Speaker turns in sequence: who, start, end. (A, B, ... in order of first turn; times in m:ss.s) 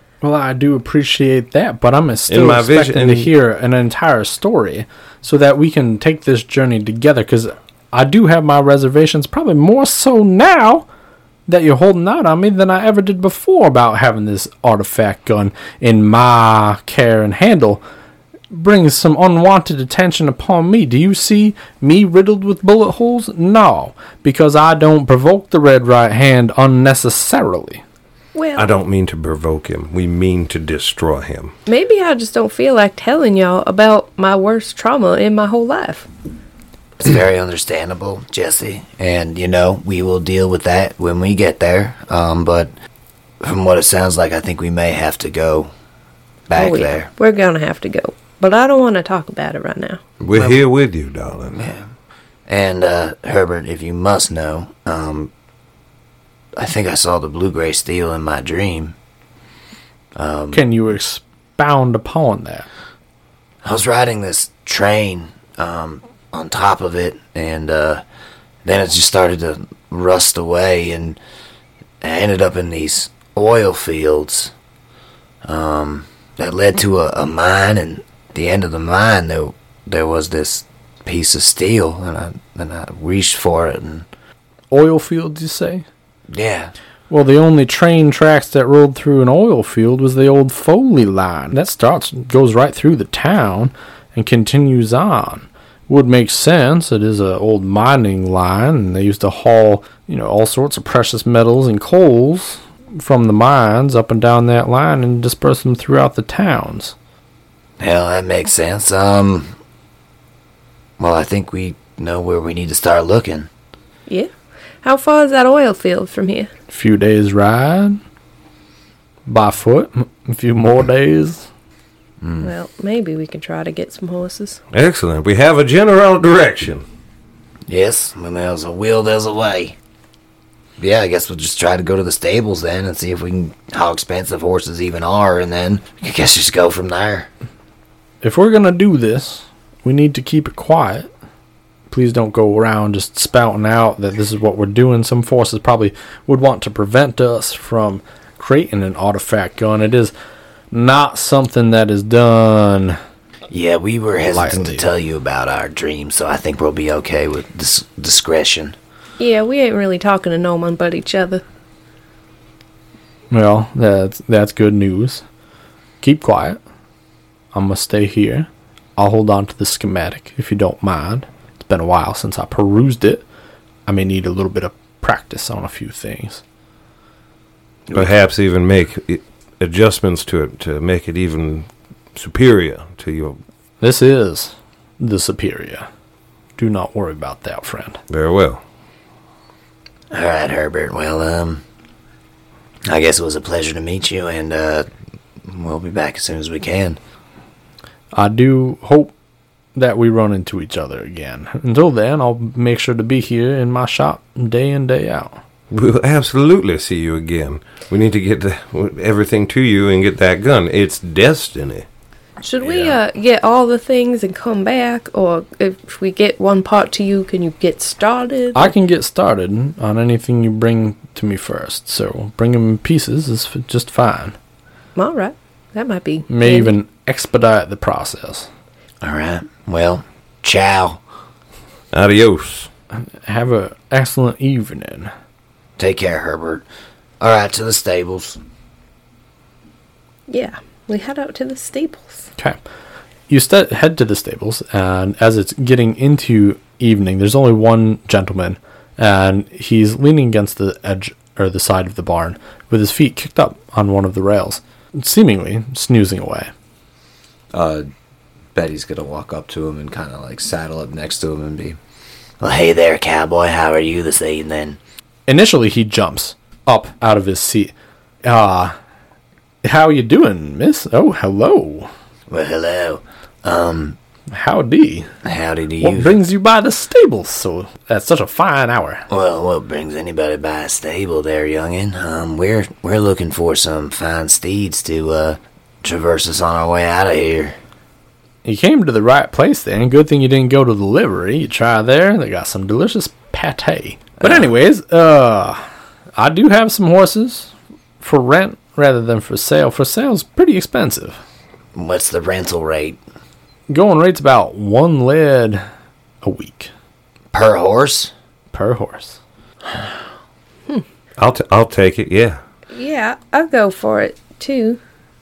0:00.2-0:10.8 A
0:02.3-0:03.3 B
0:11.5-0:17.8 A
0:18.5-0:27.8 A
0:28.3-0:28.7 C
0:28.6-0:31.5 B
0:31.7-0:36.1 C
0:37.0-0:42.7 D
0:43.4-0:45.7 D
0:46.5-0:47.1 D
0:46.5-0:50.0 C
0:50.2-0:51.7 B
0:50.3-0:50.6 D
0:51.6-0:51.8 D
0:52.5-0:55.3 D
0:56.6-0:58.9 D
1:00.1-1:00.6 D
1:00.5-1:02.7 A
1:03.6-1:08.0 D
1:08.6-1:11.2 D
1:12.0-1:14.5 D
1:15.4-1:24.0 D
1:24.7-1:25.8 A
1:26.3-1:26.7 D
1:27.1-1:46.9 A
1:47.8-1:49.5 D
1:51.0-1:53.5 D
1:54.8-1:56.5 C
1:56.7-1:58.0 A
1:59.3-2:01.5 A
2:02.4-2:04.6 C
2:04.7-2:06.8 B
2:07.7-2:09.8 D
2:10.8-2:17.3 D
2:18.2-2:21.1 A
2:21.9-2:30.1 A
2:30.7-2:33.0 A
2:33.5-2:38.7 D
2:34.2-2:34.8 A
2:39.2-2:41.4 C
2:43.3-2:45.2 A
2:46.0-2:46.6 A
2:47.5-2:53.2 A
2:53.9-2:56.4 A
2:57.9-3:03.4 B
3:03.8-3:05.9 A
3:06.6-3:08.0 A
3:08.1-3:08.6 B
3:10.1-3:11.6 D
3:12.8-3:14.9 D
3:15.4-3:17.0 D
3:18.1-3:19.1 A
3:19.7-3:25.4 A
3:25.7-3:31.8 B
3:32.4-3:38.7 C
3:32.6-3:33.0 D
3:38.5-3:44.4 A
3:45.0-3:46.7 C
3:46.3-3:48.5 A
3:49.0-3:51.0 D
3:51.9-3:52.7 B
3:52.9-3:55.1 A
3:55.8-3:56.6 D
3:57.2-3:58.4 D
4:00.3-4:02.2 C
4:03.3-4:16.5 A
4:17.5-4:17.9 E
4:18.5-4:21.8 E
4:22.4-4:24.8 D
4:25.3-4:27.7 A
4:28.2-4:28.7 A
4:29.6-4:31.9 A
4:32.3-4:34.0 D
4:34.3-4:35.1 A
4:35.2-4:36.2 D
4:35.8-4:39.0 A
4:39.1-4:47.6 D
4:48.4-4:55.6 A
4:56.2-5:01.2 A
5:01.7-5:03.0 D
5:03.7-5:05.6 A
5:06.2-5:06.7 A
5:07.3-5:08.1 D
5:08.5-5:09.2 A
5:11.2-5:12.4 B
5:12.7-5:14.8 C